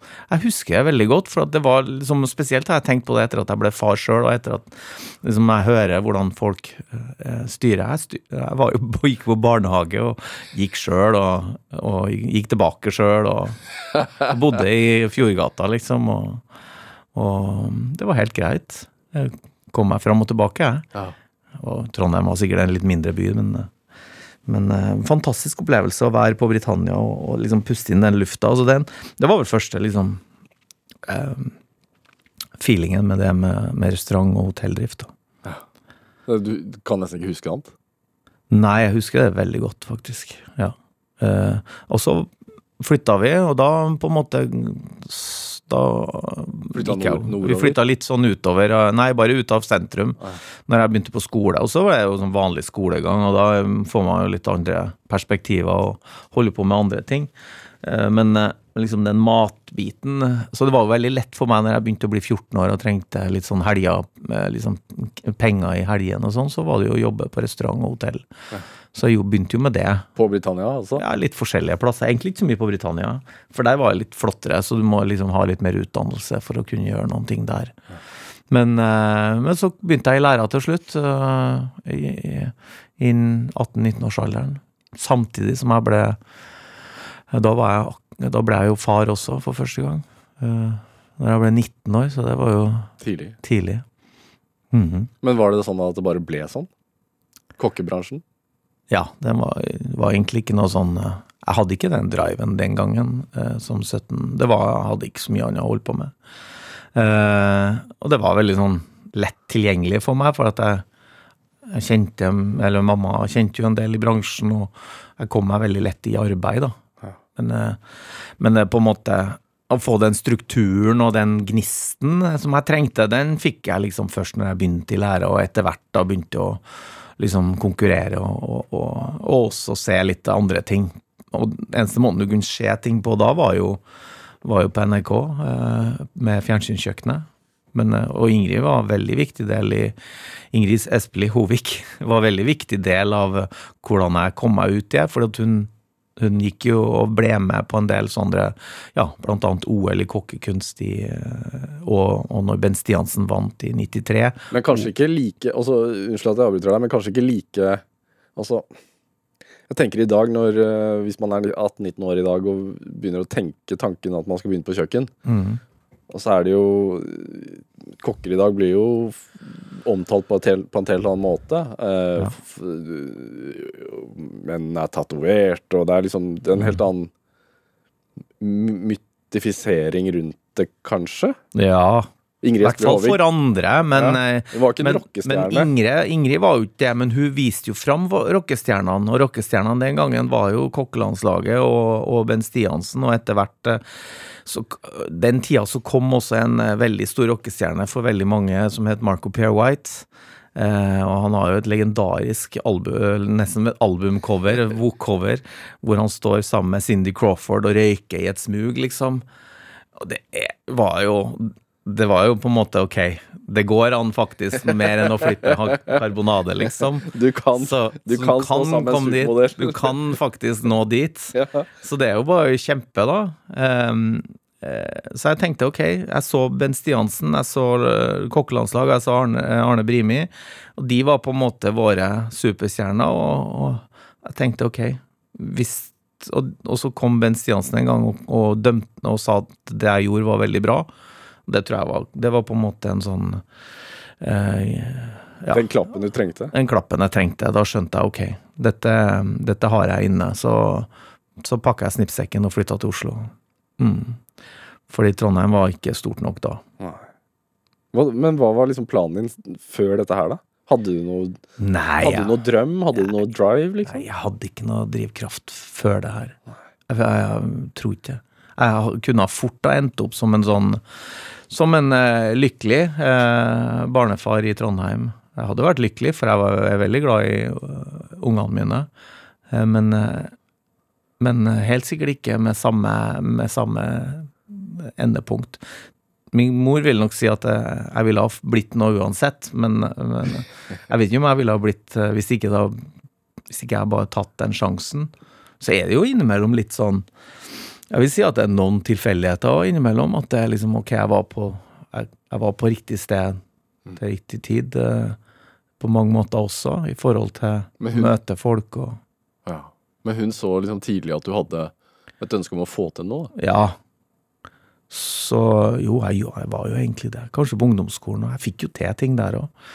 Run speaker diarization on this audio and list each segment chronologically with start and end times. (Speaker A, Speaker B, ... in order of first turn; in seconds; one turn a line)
Speaker A: 0.3-13.6
Speaker A: 14.1-16.4
Speaker A: 17.1-20.9
Speaker A: 21.6-23.7
Speaker A: 24.5-30.2
Speaker A: 31.1-31.5
Speaker A: 32.6-35.1
Speaker B: 36.3-37.7
Speaker A: 38.5-68.3
Speaker B: 46.7-47.8
Speaker A: 68.9-70.1
Speaker B: 70.2-71.0
Speaker A: 71.0-77.8
Speaker A: 78.5-86.2
Speaker A: 87.3-93.8
Speaker B: 93.0-93.4
Speaker A: 94.7-95.1
Speaker B: 95.2-96.7
Speaker B: 97.6-98.2
Speaker A: 98.9-106.1
Speaker A: 106.9-110.8
Speaker A: 111.7-116.8
Speaker A: 117.4-117.8
Speaker A: 118.4-126.6
Speaker A: 127.2-133.8
Speaker A: 134.4-140.0
Speaker A: 140.5-154.9
Speaker B: 154.5-157.8
Speaker B: 158.4-158.7
Speaker B: 159.7-165.1
Speaker A: 165.2-165.6
Speaker B: 166.1-177.1
Speaker B: 178.4-181.4
Speaker A: 181.5-182.1
Speaker B: 182.4-183.2
Speaker A: 182.6-193.8
Speaker B: 183.9-185.7
Speaker A: 194.4-209.2
Speaker A: 210.0-240.9
Speaker B: 217.0-220.0
Speaker B: 221.3-221.7
Speaker A: 241.5-243.4
Speaker A: 244.2-245.7
Speaker B: 245.5-246.5
Speaker A: 246.5-254.2
Speaker A: 254.9-256.6
Speaker B: 257.9-261.4
Speaker A: 261.6-262.4
Speaker B: 262.0-264.0
Speaker A: 263.9-266.4
Speaker A: 266.9-270.8
Speaker A: 271.5-278.9
Speaker A: 279.5-280.3
Speaker A: 281.2-285.6
Speaker A: 286.3-292.9
Speaker A: 293.5-297.1
Speaker A: 297.9-303.4
Speaker A: 304.0-305.2
Speaker A: 305.8-309.0
Speaker B: 307.8-308.1
Speaker B: 309.5-313.3
Speaker A: 313.4-313.8
Speaker A: 314.9-319.5